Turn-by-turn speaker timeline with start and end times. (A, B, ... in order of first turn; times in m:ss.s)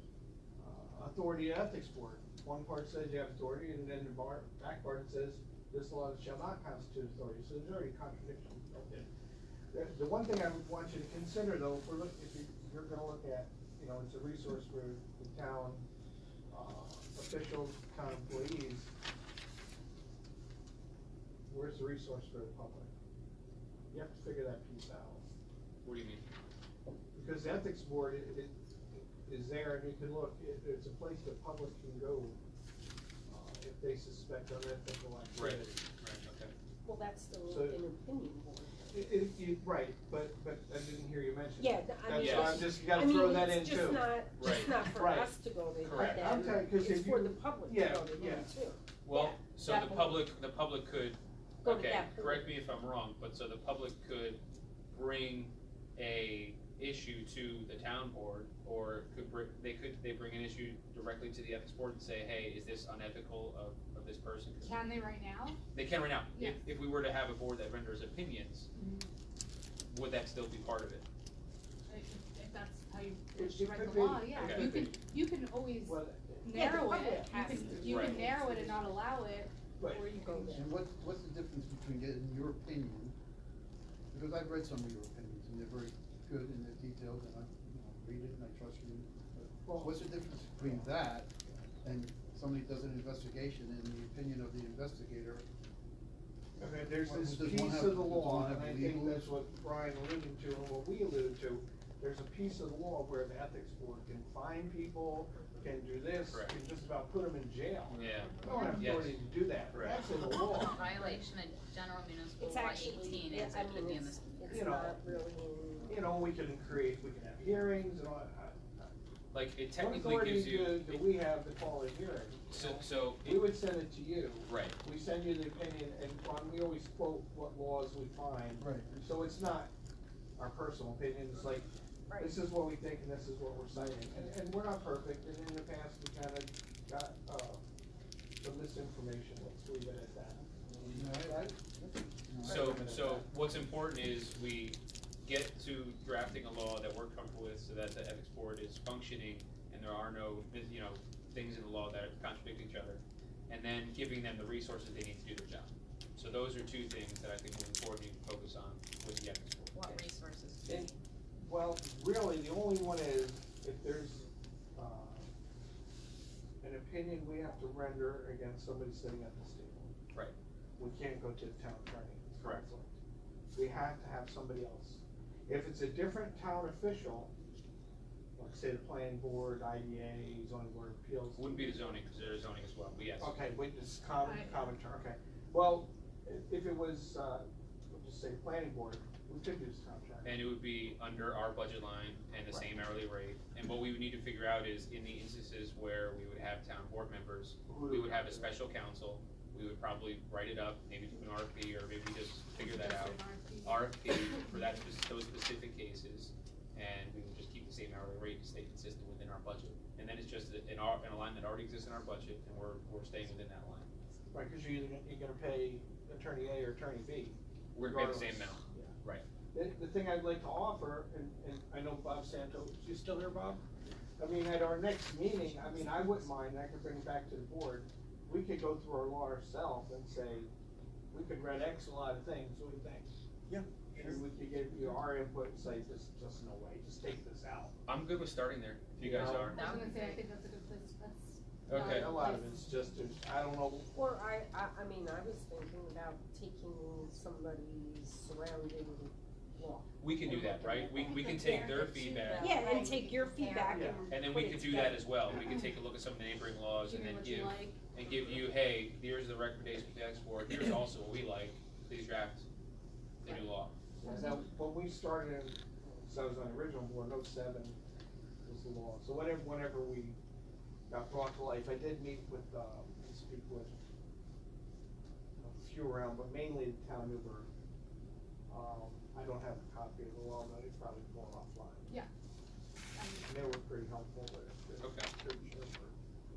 0:00.6-0:09.1 A
0:09.7-0:15.8 A
0:16.5-0:18.9 A
0:21.5-0:22.9 A
0:23.9-0:25.2 A
0:25.8-0:26.2 B
0:27.1-0:32.4 A
0:33.3-0:35.8 A
0:35.4-0:36.5 B
0:36.8-0:39.1 C
0:37.5-0:37.8 A
0:38.9-0:45.4 A
0:41.6-0:50.2 C
0:42.1-0:42.8 B
0:44.4-0:44.9 B
0:45.8-0:46.4 B
0:45.9-0:48.5 A
0:49.0-0:54.4 B
0:51.6-0:52.5 C
0:54.9-1:04.8 B
1:04.6-1:05.6 D
1:05.7-1:08.7 B
1:06.3-1:06.6 D
1:08.7-1:09.1 D
1:09.8-1:11.0 B
1:11.9-1:20.7 D
1:13.3-1:15.0 A
1:14.3-1:14.8 B
1:15.8-1:18.2 A
1:16.5-1:18.9 C
1:17.8-1:18.2 B
1:19.8-1:20.1 A
1:20.2-1:20.6 C
1:20.5-1:23.1 E
1:24.1-1:31.3 E
1:29.6-1:30.9 A
1:31.8-1:35.4 E
1:36.6-1:51.2 A
1:37.0-1:39.3 E
1:47.9-1:50.0 B
1:48.4-1:49.0 D
1:50.8-1:54.6 F
1:52.4-1:56.0 C
1:54.5-1:55.2 A
1:55.8-1:58.9 A
1:59.3-2:01.1 B
1:59.8-2:09.7 A
2:02.5-2:03.6 B
2:04.4-2:04.8 B
2:08.6-2:09.0 E
2:10.4-2:17.6 A
2:12.1-2:12.4 C
2:18.4-2:21.5 A
2:20.8-2:22.9 E
2:22.4-2:23.3 A
2:22.4-2:40.0 B
2:39.7-2:41.0 F
2:40.6-2:45.3 A
2:46.6-2:49.9 A
2:50.8-2:53.0 A
2:52.4-2:52.6 B
2:53.5-2:57.3 A
2:58.4-3:02.0 A
3:01.3-3:03.4 B
3:03.2-3:10.3 A
3:04.2-3:04.7 D
3:10.2-3:33.9 B
3:17.7-3:18.5 A
3:22.5-3:24.7 D
3:34.3-3:38.9 A
3:37.7-3:39.2 B
3:39.5-3:43.6 A
3:44.2-3:50.5 A
3:51.1-3:53.1 A
3:53.5-3:54.2 E
3:53.9-3:57.8 A
3:57.8-3:59.6 B
3:59.0-3:59.6 A
3:59.4-4:02.9 D
3:59.6-4:00.2 F
4:01.7-4:02.3 B
4:01.7-4:03.9 A
4:03.9-4:11.6 C
4:10.0-4:12.5 B
4:11.0-4:12.5 D
4:11.7-4:13.9 F
4:12.4-4:15.1 C
4:13.7-4:14.1 A
4:14.1-4:22.4 B
4:15.4-4:15.7 D
4:16.8-4:18.4 D
4:23.2-4:23.7 B
4:24.0-4:27.8 A
4:24.0-4:24.5 D
4:28.4-4:30.2 A
4:30.9-4:33.8 A
4:35.4-4:37.5 A
4:38.5-4:42.0 A
4:42.9-4:43.5 D
4:43.2-4:45.9 A
4:44.8-4:45.1 B